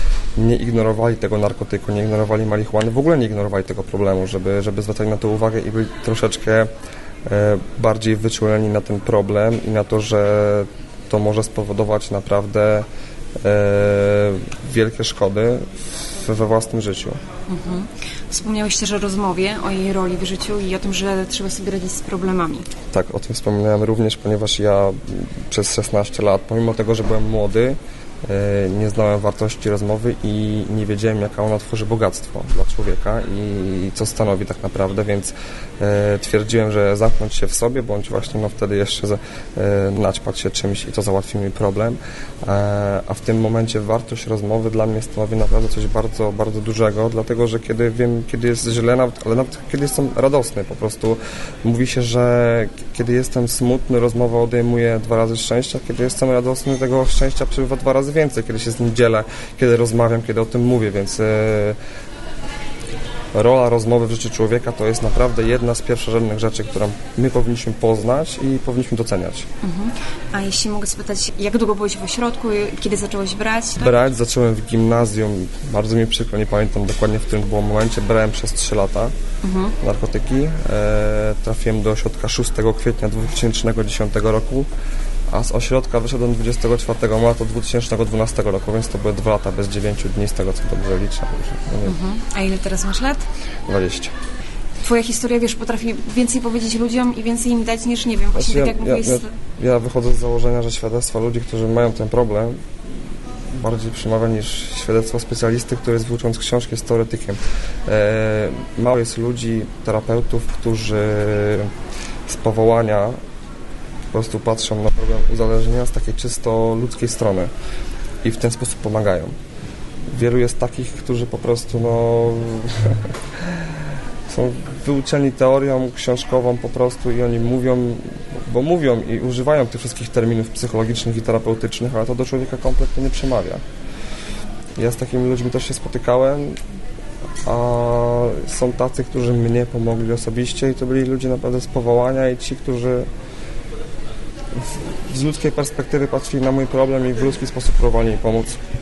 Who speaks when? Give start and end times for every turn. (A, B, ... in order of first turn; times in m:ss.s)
0:00.4-0:06.7 A
0:07.2-0:12.8 A
0:13.4-0:17.2 A
0:17.5-0:22.7 B
0:22.9-1:01.8 A
1:03.3-1:09.5 A
1:09.6-1:14.0 B
1:13.8-1:19.1 A
1:19.4-1:19.7 B
1:19.8-1:24.7 A
1:25.3-1:32.0 A
1:31.8-1:33.2 B
1:33.7-1:34.1 A
1:34.8-1:39.3 B
1:38.3-1:42.6 A
1:43.5-1:51.7 A
1:52.3-1:53.2 A
1:54.1-1:57.5 A
1:58.2-1:59.3 A
2:00.1-2:03.6 A
2:04.3-2:13.6 A
2:14.8-2:16.6 A
2:17.4-2:23.1 A
2:24.6-2:28.6 A